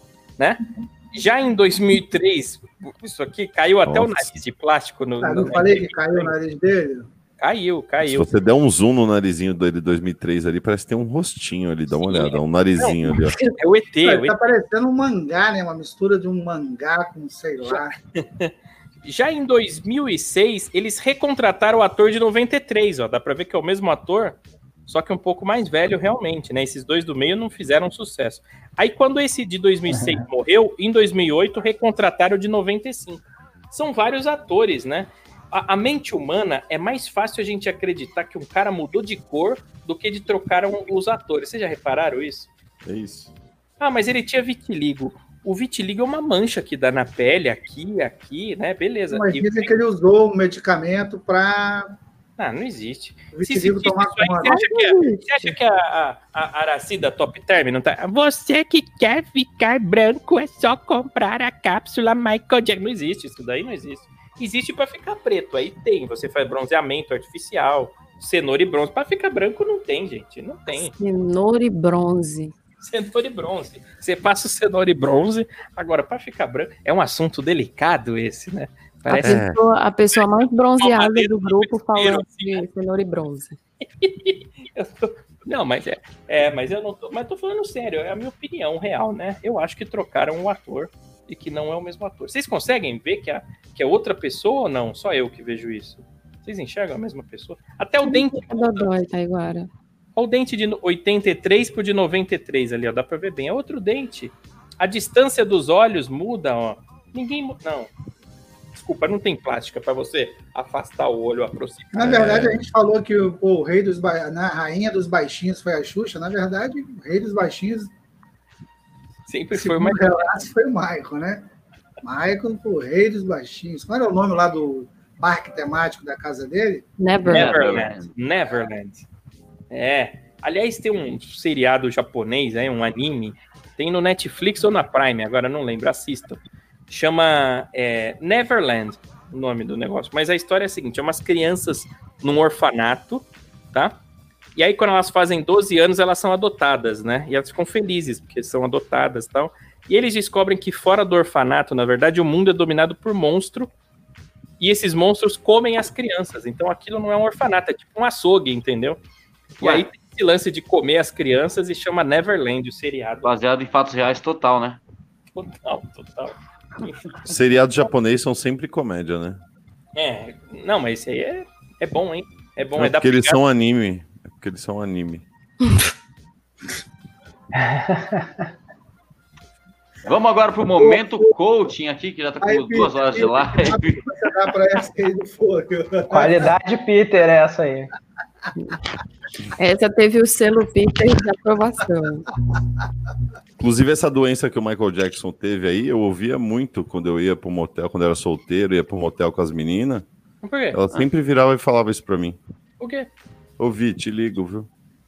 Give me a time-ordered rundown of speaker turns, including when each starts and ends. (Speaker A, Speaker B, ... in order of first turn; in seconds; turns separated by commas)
Speaker A: 0.4-6.3, Speaker B: 3.9-4.3, Speaker C: 5.2-7.1, Speaker A: 7.4-8.3, Speaker B: 8.0-13.4, Speaker A: 11.9-13.0, Speaker D: 13.1-13.5, Speaker A: 13.6-14.4, Speaker C: 14.0-17.9, Speaker A: 17.6-42.5, Speaker E: 29.9-30.2, Speaker B: 42.8-43.3, Speaker A: 43.8-49.7, Speaker C: 49.1-51.9, Speaker A: 52.4-70.9, Speaker C: 53.3-54.6, Speaker D: 54.4-55.5, Speaker D: 70.7-72.5, Speaker A: 72.8-79.4, Speaker D: 79.1-83.6, Speaker B: 79.2-79.6, Speaker A: 80.8-82.6, Speaker A: 84.0-98.9, Speaker D: 98.0-99.7, Speaker A: 100.2-107.9, Speaker A: 108.7-112.5, Speaker C: 111.9-117.9, Speaker A: 119.3-120.4, Speaker C: 119.5-121.5, Speaker C: 122.0-126.8, Speaker D: 127.0-127.5, Speaker F: 127.2-128.1, Speaker A: 127.3-129.1, Speaker A: 129.7-144.0, Speaker A: 144.6-153.7, Speaker A: 154.6-159.0, Speaker A: 159.6-163.3, Speaker F: 159.6-159.8, Speaker F: 163.2-164.8, Speaker A: 165.3-167.3, Speaker B: 167.2-169.4, Speaker A: 169.9-173.4, Speaker B: 172.8-175.2, Speaker E: 177.5-178.5, Speaker F: 180.0-184.0, Speaker C: 180.8-181.3, Speaker C: 182.4-186.5, Speaker E: 186.1-187.9, Speaker D: 189.6-192.2, Speaker B: 193.6-200.1, Speaker A: 200.4-200.8, Speaker B: 200.7-202.4, Speaker A: 202.8-203.1, Speaker B: 203.6-204.7